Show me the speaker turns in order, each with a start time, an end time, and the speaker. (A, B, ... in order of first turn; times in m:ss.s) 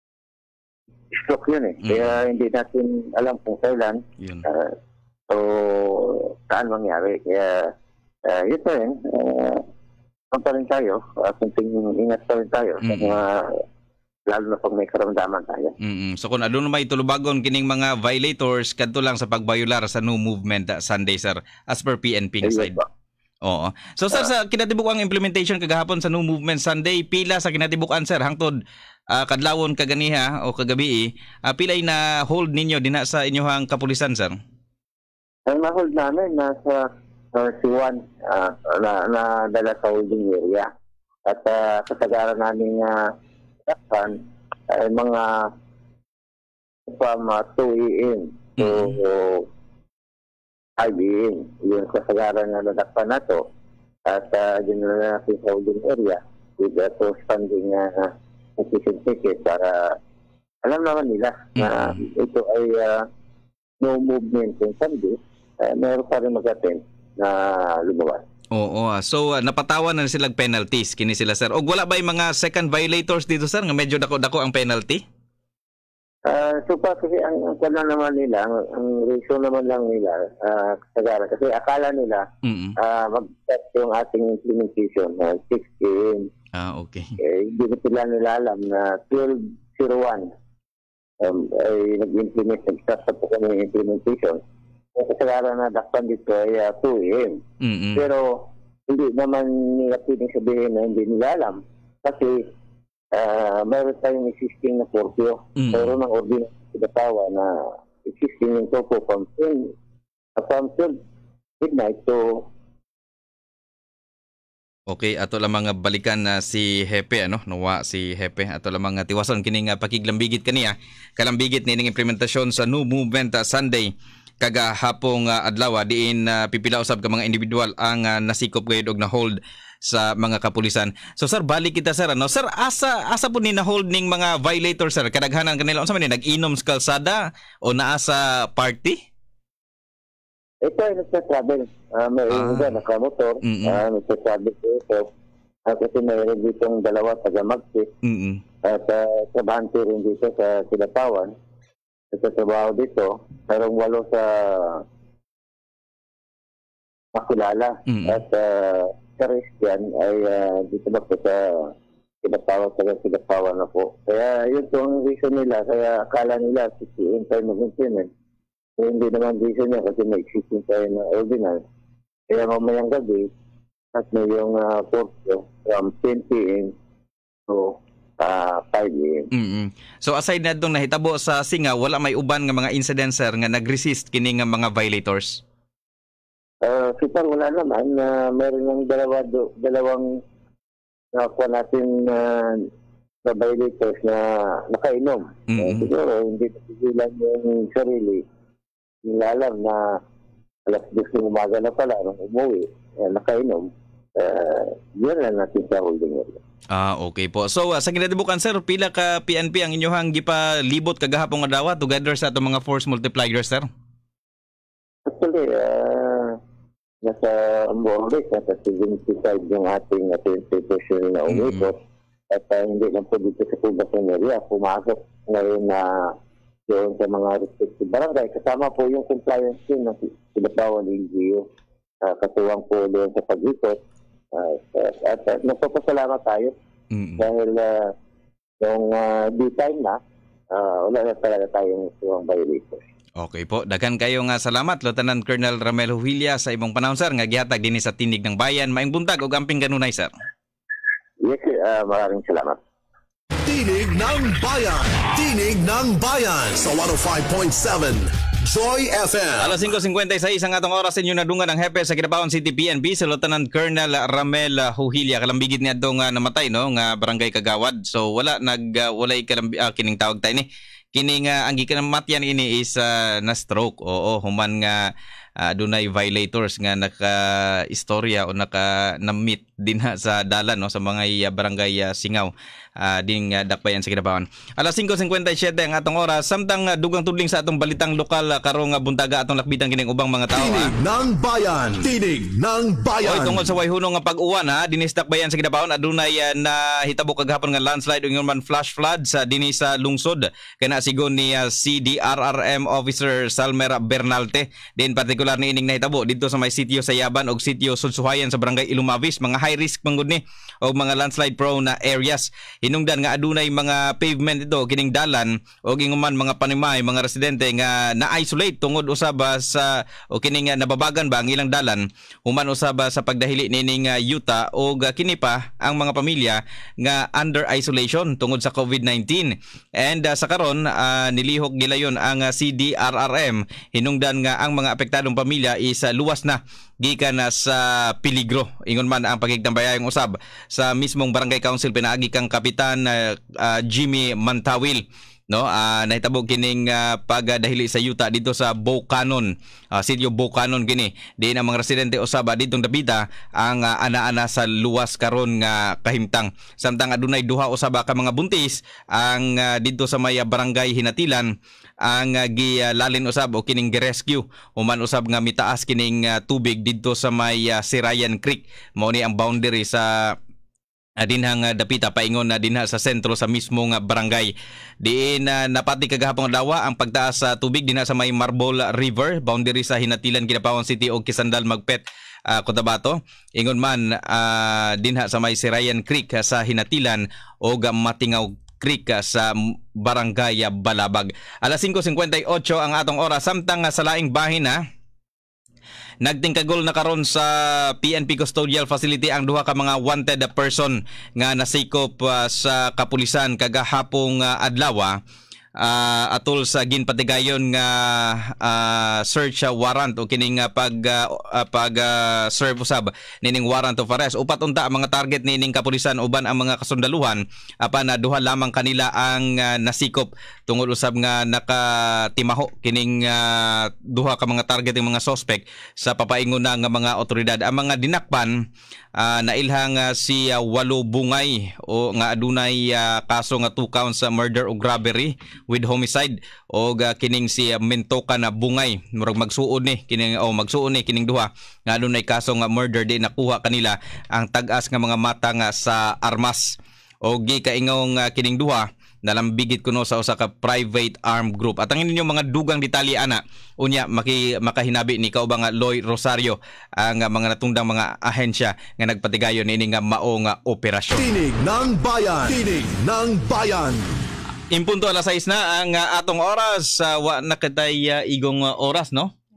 0:01.1-0:04.7 A
0:01.8-0:02.2 B
0:04.2-0:04.4 B
0:05.3-0:07.7 A
0:08.3-0:09.6 A
0:10.3-0:13.6 A
0:12.8-0:13.1 B
0:14.3-0:15.8 A
0:15.8-0:22.8 B
0:22.4-0:22.9 A
0:23.5-0:28.5 B
0:29.1-0:34.4 B
0:35.5-0:40.7 A
0:41.3-0:43.1 A
0:43.7-0:45.5 A
0:46.9-0:49.4 A
0:48.6-0:49.0 B
0:50.8-0:53.4 A
0:54.1-1:00.0 A
1:00.6-1:03.0 A
1:01.6-1:01.9 B
1:03.8-1:08.2 A
1:08.6-1:15.0 B
1:16.3-1:22.3 A
1:22.4-1:22.8 B
1:22.8-1:26.3 A
1:26.5-1:27.1 B
1:27.2-1:30.3 A
1:31.2-1:34.4 A
1:35.0-1:37.4 A
1:37.6-1:38.0 B
1:38.0-1:42.5 A
1:43.1-1:47.6 A
1:45.6-1:45.9 B
1:48.1-1:49.7 A
1:50.4-1:51.0 A
1:51.6-1:52.5 A
1:54.9-2:03.9 B
2:04.4-2:19.0 B
2:20.6-2:25.1 A
2:22.3-2:22.7 B
2:23.4-2:23.8 B
2:25.7-2:27.9 A
2:28.0-2:28.4 B
2:28.7-2:31.3 A
2:32.1-2:34.8 A
2:37.1-2:41.7 A
2:37.9-2:38.2 B
2:42.2-2:48.1 A
2:48.8-2:51.6 A
2:52.3-2:53.3 A
2:54.0-2:56.7 A
2:57.5-2:59.2 A
2:59.3-3:05.4 B
3:06.6-3:10.1 A
3:11.1-3:12.7 A
3:13.2-3:18.2 A
3:15.5-3:15.9 B
3:19.0-3:20.0 A
3:20.7-3:26.4 A
3:26.7-3:33.6 B
3:35.1-3:36.4 A
3:37.0-3:41.8 A
3:41.3-3:41.7 B
3:42.3-3:46.1 A
3:46.7-3:51.5 A
3:52.0-3:53.8 A
3:54.3-3:56.6 A
3:56.9-3:57.2 B
3:57.2-3:57.9 A
3:58.6-4:00.0 A
4:00.5-4:02.8 A
4:03.2-4:10.1 B
4:11.2-4:12.6 A
4:13.5-4:19.6 C
4:19.4-4:34.9 B
4:35.4-4:50.7 B
4:50.4-4:53.5 C
4:53.0-6:01.3 B
6:01.8-6:10.1 B
6:11.0-6:14.3 B
6:14.8-6:34.6 B
6:36.0-6:45.0 B
6:45.6-7:08.3 B
7:09.0-7:26.6 B
7:27.1-7:41.0 B
7:41.0-7:43.8 C
7:44.5-7:49.1 B